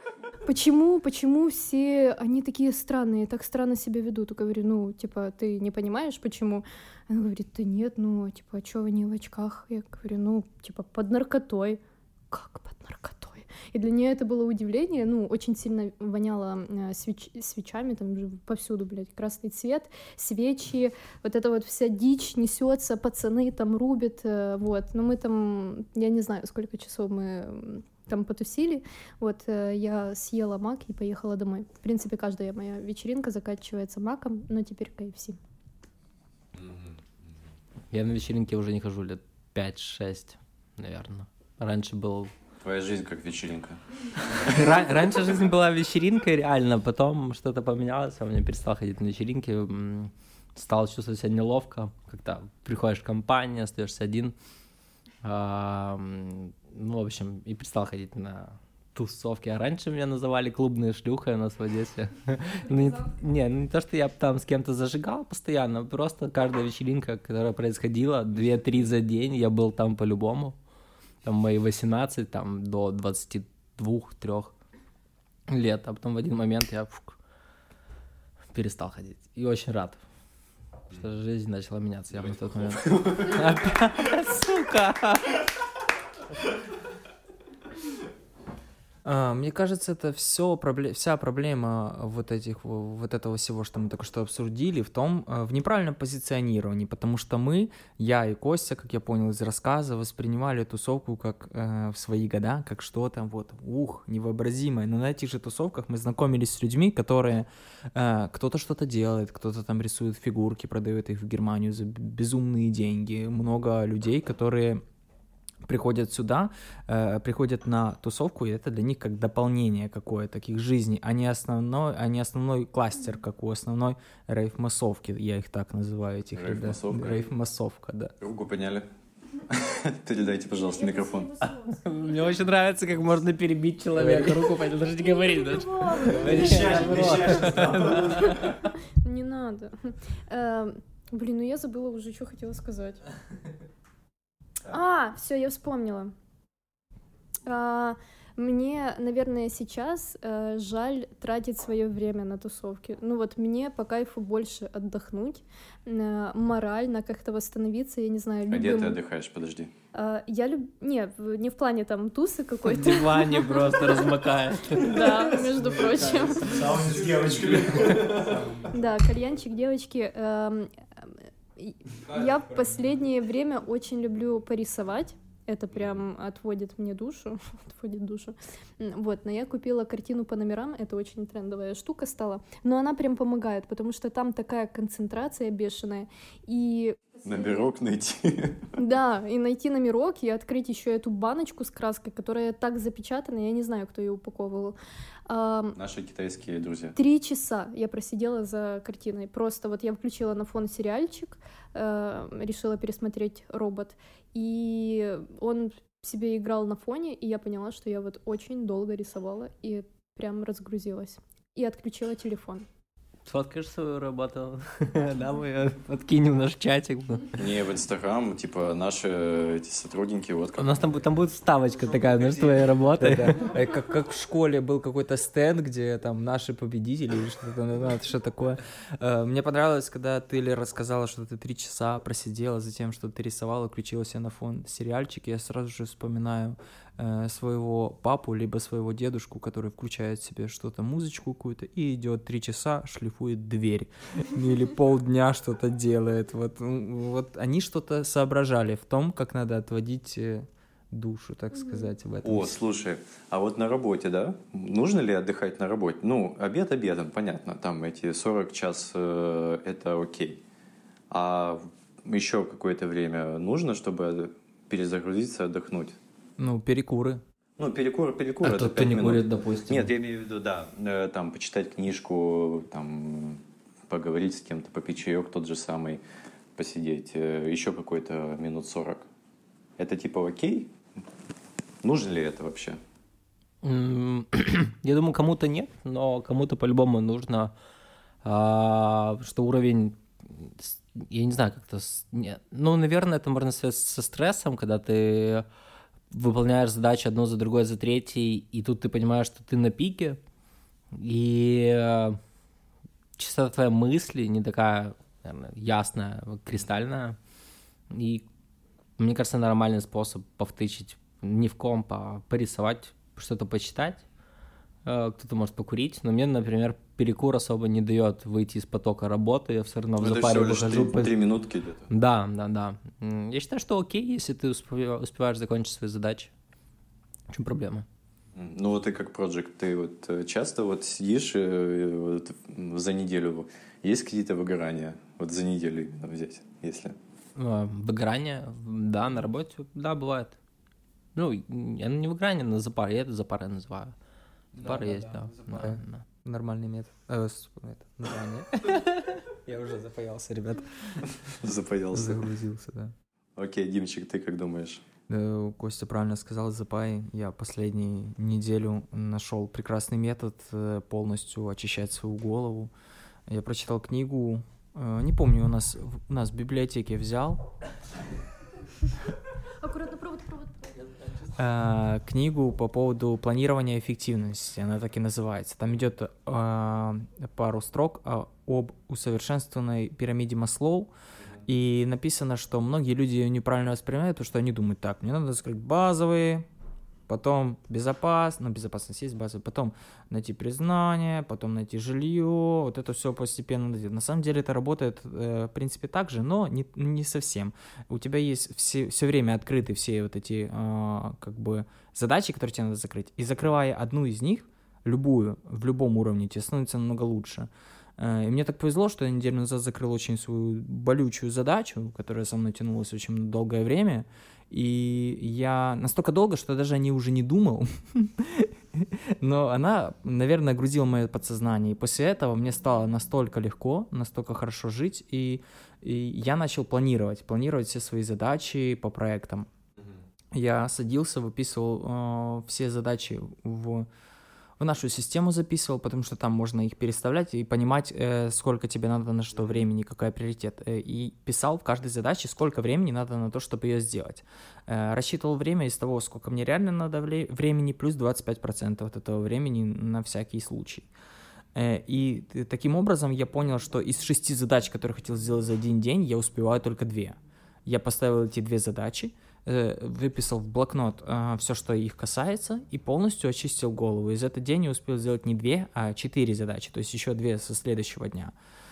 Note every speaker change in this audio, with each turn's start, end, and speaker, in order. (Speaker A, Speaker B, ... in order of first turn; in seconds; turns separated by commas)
Speaker A: 0.5-35.4, Speaker B: 36.5-37.4, Speaker C: 37.9-42.3, Speaker B: 42.6-44.7, Speaker C: 44.4-54.3, Speaker C: 55.2-70.5, Speaker A: 62.7-63.1, Speaker C: 71.2-74.5, Speaker C: 75.5-77.2, Speaker C: 78.5-80.0, Speaker C: 80.9-85.4, Speaker B: 82.5-83.3, Speaker D: 89.0-114.8, Speaker D: 115.6-128.1, Speaker B: 126.3-127.3, Speaker B: 128.2-128.9, Speaker B: 129.5-131.5, Speaker A: 130.8-132.2, Speaker C: 131.8-138.6, Speaker D: 133.9-134.5, Speaker A: 135.1-143.0, Speaker B: 136.2-138.2, Speaker A: 144.6-146.1, Speaker A: 147.4-159.0, Speaker B: 158.5-159.7, Speaker A: 159.9-164.2, Speaker C: 162.6-165.4, Speaker A: 164.8-166.8, Speaker D: 166.2-168.7, Speaker B: 166.4-168.5, Speaker A: 168.6-187.7, Speaker B: 187.2-188.7, Speaker A: 188.7-195.8, Speaker B: 195.8-196.9, Speaker A: 196.9-212.7, Speaker C: 213.2-217.5, Speaker B: 217.4-221.0, Speaker C: 220.6-223.5, Speaker D: 223.0-252.6, Speaker A: 251.5-251.9, Speaker B: 252.2-260.4, Speaker B: 261.1-266.0, Speaker D: 266.4-267.2, Speaker B: 267.6-276.0, Speaker C: 268.4-269.8, Speaker D: 268.8-269.8, Speaker B: 276.5-279.1, Speaker B: 279.8-280.7, Speaker B: 281.8-282.8, Speaker C: 283.6-287.5, Speaker C: 288.2-295.4, Speaker C: 296.1-300.2, Speaker C: 300.9-302.2, Speaker C: 303.2-307.2, Speaker C: 307.9-308.2, Speaker C: 309.0-314.0, Speaker C: 314.8-321.1, Speaker B: 320.0-321.9, Speaker C: 321.9-326.3, Speaker C: 327.3-327.9, Speaker B: 328.3-336.9, Speaker C: 337.4-340.4, Speaker C: 341.1-343.9, Speaker C: 344.6-346.0, Speaker D: 344.6-351.2, Speaker B: 351.3-352.2, Speaker D: 351.9-352.9, Speaker B: 353.4-354.8, Speaker D: 355.1-362.7, Speaker D: 363.3-367.4, Speaker A: 369.6-370.7, Speaker D: 371.4-380.9, Speaker D: 381.4-386.4, Speaker D: 387.1-429.5, Speaker D: 430.3-433.9, Speaker D: 434.6-450.9, Speaker D: 451.5-468.3